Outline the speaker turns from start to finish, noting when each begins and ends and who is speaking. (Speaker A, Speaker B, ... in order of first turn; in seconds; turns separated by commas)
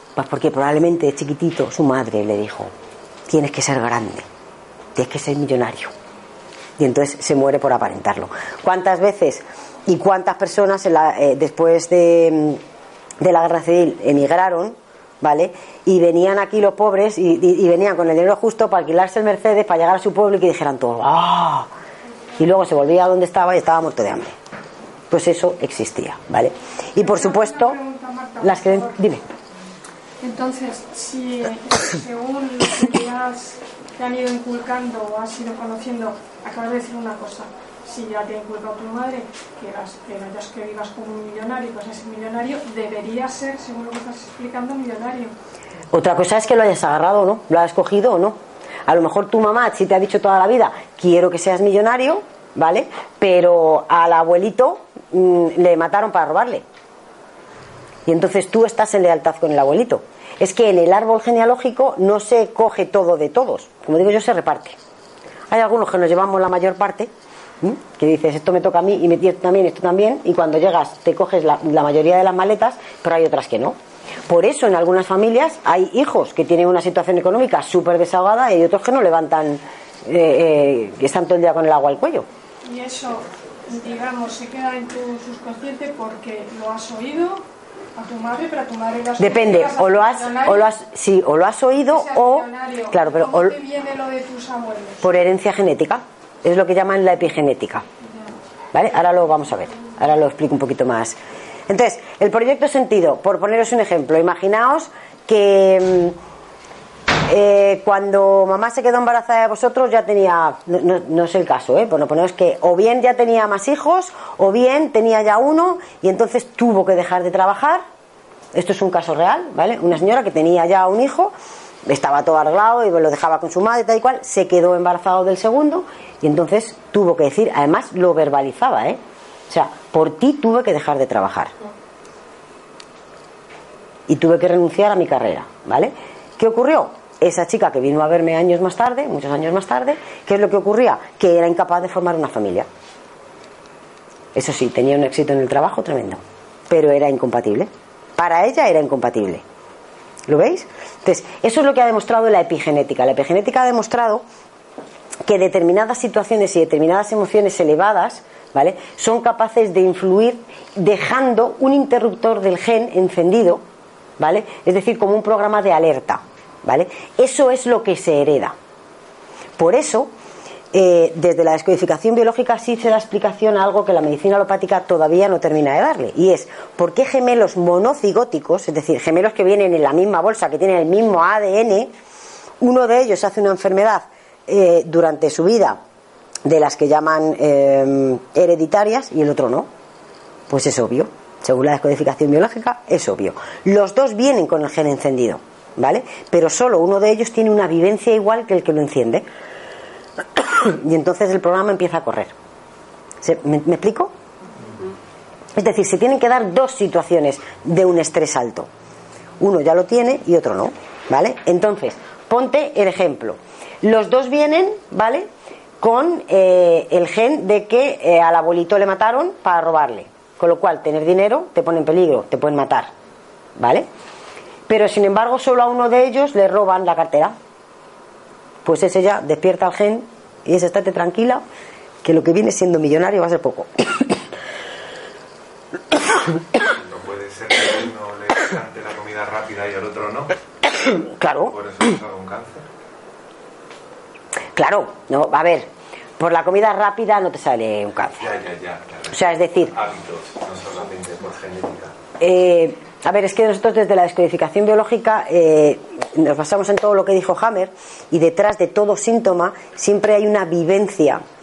Speaker A: 0.1-2.7, Speaker A: 3.3-4.2, Speaker A: 5.0-5.9, Speaker A: 6.8-12.6, Speaker A: 13.2-21.7, Speaker A: 22.4-24.3, Speaker A: 25.1-27.8, Speaker B: 27.0-28.9, Speaker A: 28.4-29.2, Speaker B: 30.2-45.3, Speaker A: 45.9-56.6, Speaker A: 58.0-64.8, Speaker A: 65.5-67.1, Speaker A: 67.6-73.7, Speaker A: 74.3-82.2, Speaker B: 82.6-87.4, Speaker B: 87.9-90.7, Speaker A: 89.2-93.6, Speaker B: 91.9-95.0, Speaker A: 95.0-97.8, Speaker A: 98.7-101.2, Speaker A: 101.7-106.2, Speaker A: 107.3-117.8, Speaker A: 118.5-121.3, Speaker A: 121.8-131.5, Speaker A: 134.1-142.7, Speaker A: 144.3-149.4, Speaker A: 150.3-154.2, Speaker A: 155.2-163.6, Speaker A: 164.2-168.5, Speaker A: 169.6-170.1, Speaker A: 170.7-181.9, Speaker A: 182.6-185.8, Speaker A: 186.4-189.7, Speaker A: 190.5-199.2, Speaker A: 200.3-202.3, Speaker A: 203.2-204.1, Speaker A: 205.6-208.7, Speaker A: 209.4-215.3, Speaker A: 215.8-222.9, Speaker A: 223.6-223.8, Speaker A: 224.7-227.3, Speaker A: 228.6-231.4, Speaker A: 232.0-234.2, Speaker C: 236.6-240.3, Speaker A: 240.7-241.5, Speaker C: 241.5-242.7, Speaker A: 244.6-248.3, Speaker C: 248.2-249.2, Speaker A: 249.1-249.8, Speaker C: 249.7-251.9, Speaker A: 252.2-261.2